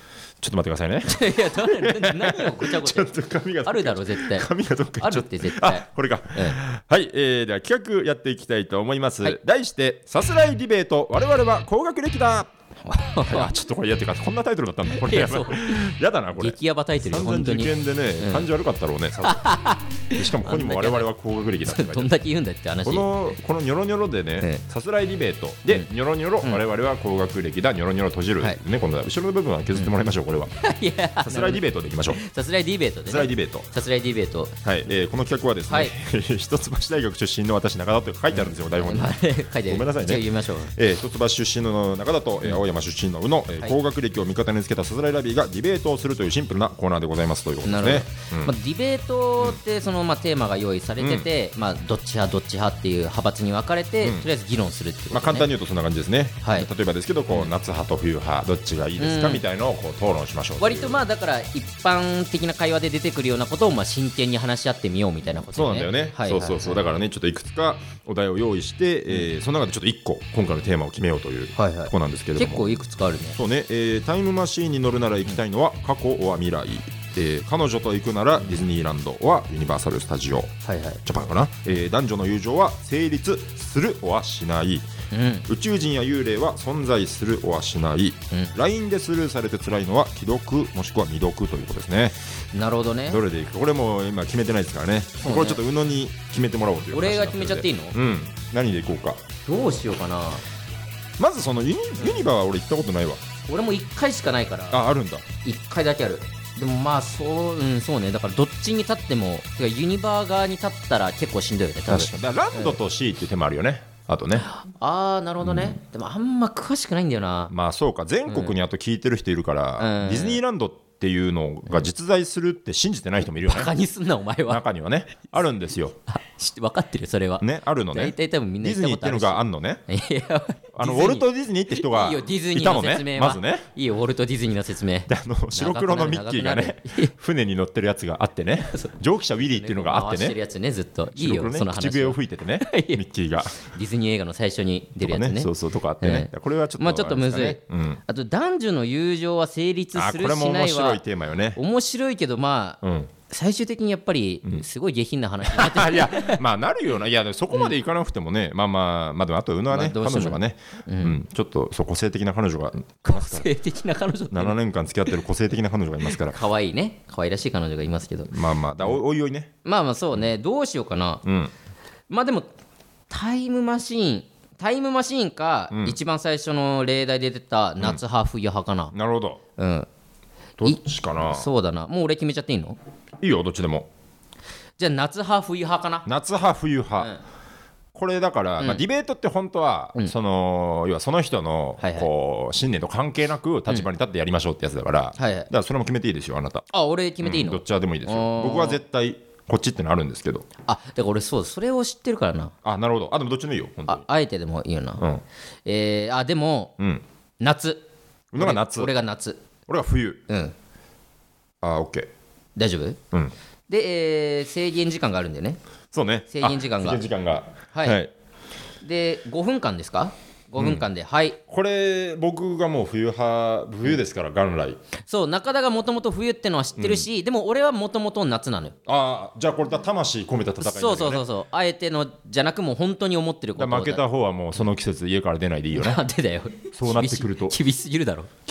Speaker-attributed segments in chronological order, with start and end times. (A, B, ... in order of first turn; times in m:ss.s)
0:00.4-0:12.5 A
0:01.0-0:03.1 B
0:03.6-0:04.5 B
0:05.0-0:06.6 B
0:12.8-0:13.5 B
0:13.2-0:19.4 A
0:14.9-0:18.5 B
0:19.2-0:21.1 B
0:20.1-0:22.1 A
0:21.6-0:23.1 B
0:22.8-0:30.5 A
0:30.6-0:34.6 B
0:31.2-0:32.2 A
0:33.0-0:33.7 A
0:34.6-0:48.5 A
0:38.3-0:40.7 B
0:47.6-0:55.5 B
0:51.0-0:51.3 A
0:55.1-1:01.0 A
0:56.4-0:56.7 B
0:59.0-0:59.4 B
1:00.6-1:06.8 B
1:05.5-1:12.7 A
1:11.6-1:13.4 B
1:13.3-1:24.9 A
1:20.6-1:21.0 B
1:25.1-1:25.5 B
1:25.5-1:32.2 A
1:32.5-1:33.2 B
1:33.1-1:39.2 A
1:35.2-1:35.6 B
1:36.9-1:38.0 B
1:39.4-1:40.4 B
1:41.2-1:43.2 A
1:42.0-1:42.2 B
1:43.5-1:44.8 B
1:44.7-1:45.2 A
1:45.4-1:52.8 B
1:51.9-1:54.5 A
1:54.4-1:57.5 B
1:55.4-1:55.7 A
1:57.5-2:03.7 A
1:58.3-1:58.5 B
1:59.8-2:00.4 B
2:03.4-2:04.6 B
2:04.5-2:06.0 A
2:06.1-2:17.1 B
2:07.4-2:09.8 A
2:10.8-2:13.7 A
2:15.1-2:20.4 A
2:18.7-2:19.0 B
2:19.5-2:23.0 B
2:21.1-2:23.6 A
2:23.6-2:31.0 B
2:25.0-2:28.0 A
2:29.9-2:31.6 A
2:31.6-2:36.4 B
2:32.8-2:33.1 A
2:35.4-2:43.5 A
2:39.7-2:41.2 B
2:43.0-2:44.6 B
2:44.3-2:46.4 A
2:46.0-2:49.0 B
2:48.3-2:49.5 A
2:49.6-2:51.2 B
2:51.2-2:51.5 A
2:52.1-2:52.5 B
2:53.1-2:58.9 B
2:55.7-2:56.0 A
2:58.9-2:59.4 A
2:59.6-2:59.9 B
3:00.6-3:01.5 A
3:00.6-3:02.8 B
3:03.2-3:03.9 A
3:04.8-3:06.0 B
3:06.0-3:07.1 A
3:07.9-3:16.7 A
3:11.8-3:12.1 B
3:15.2-3:15.5 B
3:16.7-3:18.8 B
3:17.2-3:20.4 A
3:20.7-3:22.5 B
3:22.6-3:24.0 A
3:23.9-3:25.0 B
3:25.6-3:26.7 B
3:27.4-3:27.8 B
3:28.3-3:28.9 A
3:28.4-3:29.4 B
3:29.7-3:30.2 A
3:30.3-3:30.5 B
3:31.6-3:32.1 A
3:32.6-3:33.0 B
3:33.7-3:35.6 B
3:35.9-3:38.1 A
3:36.3-3:37.0 B
3:38.8-3:41.4 B
3:40.6-3:40.8 A
3:41.5-3:44.8 A
3:45.1-3:48.8 B
3:46.8-3:47.1 A
3:48.8-3:51.2 A
3:50.6-3:54.0 B
3:53.6-3:56.0 A
3:55.7-3:58.3 B
3:56.7-3:57.6 A